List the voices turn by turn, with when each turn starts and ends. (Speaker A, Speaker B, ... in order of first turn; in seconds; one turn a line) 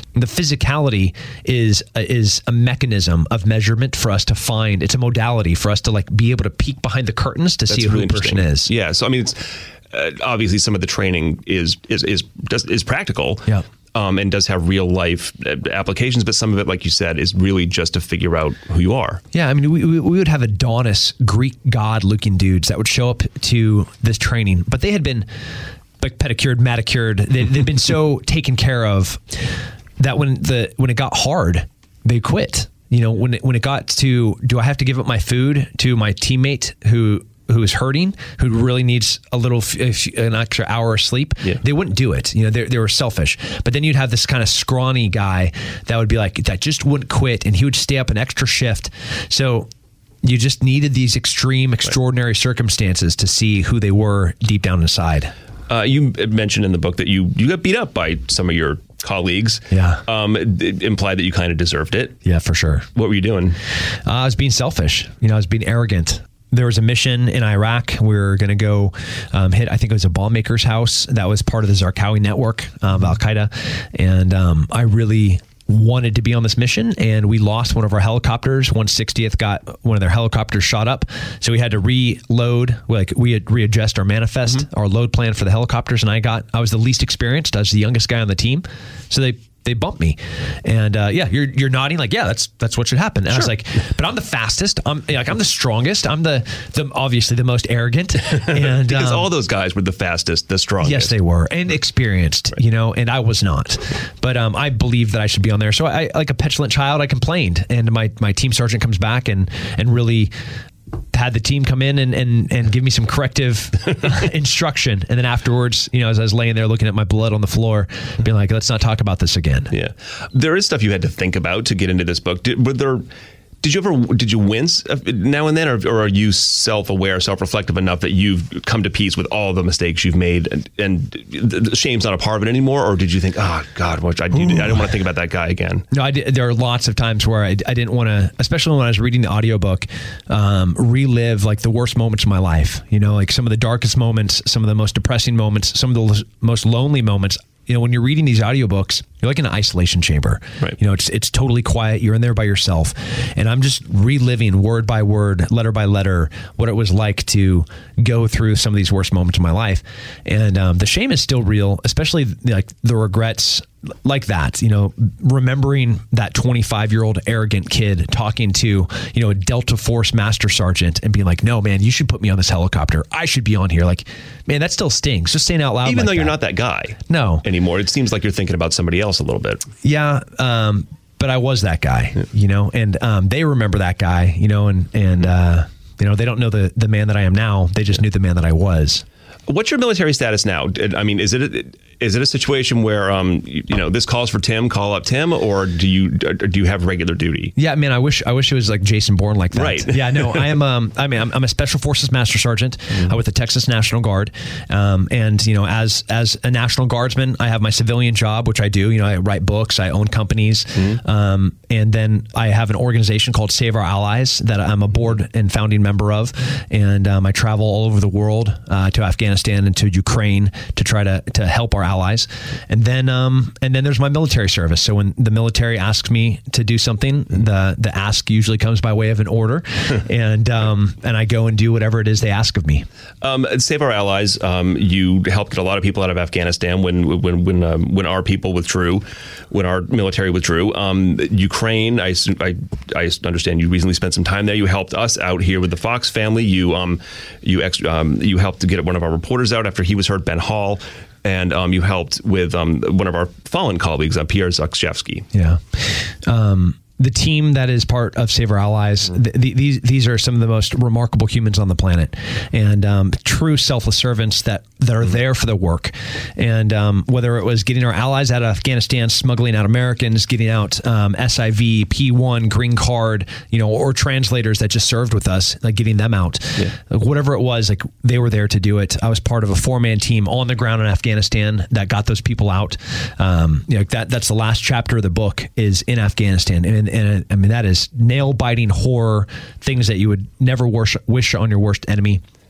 Speaker A: 0.1-8.7
Speaker B: 7.7-19.2
Speaker A: 19.3-25.3
Speaker A: 26.0-29.4
Speaker A: 30.0-49.7
Speaker A: 50.2-55.3
Speaker B: 55.7-62.2
Speaker A: 59.7-60.0
Speaker A: 62.2-62.9
Speaker B: 63.0-63.6
Speaker A: 64.1-99.3
Speaker B: 98.5-101.1
Speaker A: 100.8-110.3
Speaker A: 111.1-119.7
Speaker B: 119.7-123.1
Speaker B: 123.6-135.8
Speaker A: 134.3-134.8
Speaker A: 135.9-176.4
Speaker B: 175.8-179.6
Speaker A: 177.1-177.4
Speaker A: 179.8-189.0
Speaker B: 189.5-197.5
Speaker A: 197.6-232.9
Speaker B: 199.6-200.5
Speaker B: 233.2-255.3
Speaker A: 255.3-292.2